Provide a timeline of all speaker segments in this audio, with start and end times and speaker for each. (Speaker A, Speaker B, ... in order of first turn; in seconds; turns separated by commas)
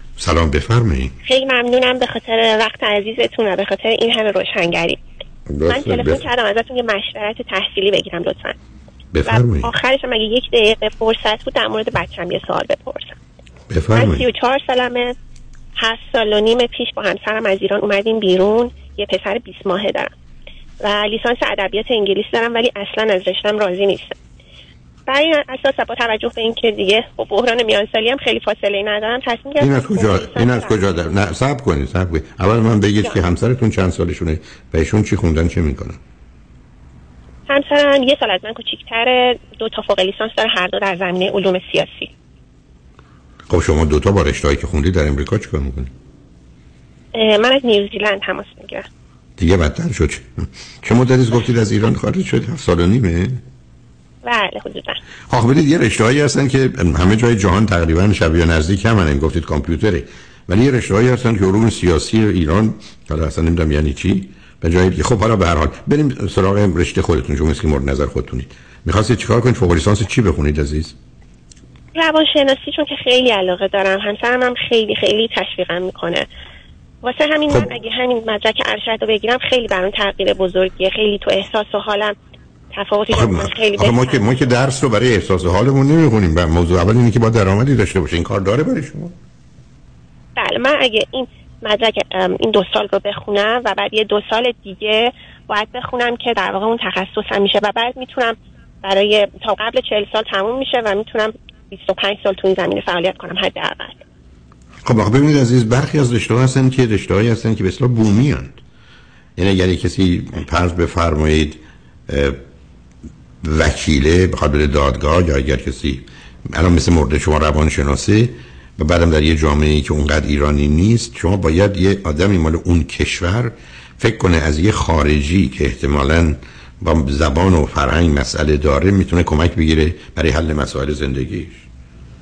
Speaker A: 0.2-1.1, Speaker B: 1.2-5.0, Speaker A: 5.5-6.3, Speaker B: 5.7-8.6, Speaker A: 9.1-9.7, Speaker B: 9.2-13.2, Speaker A: 13.7-14.3, Speaker B: 13.9-15.1, Speaker B: 15.8-20.1, Speaker B: 20.8-24.1, Speaker B: 25.1-30.8, Speaker A: 29.6-36.0, Speaker B: 37.5-42.1, Speaker A: 43.5-45.9, Speaker B: 47.1-48.9, Speaker A: 49.4-53.4, Speaker B: 54.2-55.0, Speaker A: 55.3-71.0, Speaker B: 71.9-76.3, Speaker B: 77.0-82.1, Speaker B: 82.7-84.3, Speaker A: 83.1-89.2, Speaker B: 90.4-104.0, Speaker A: 104.8-108.6, Speaker A: 109.4-112.4, Speaker A: 113.4-131.7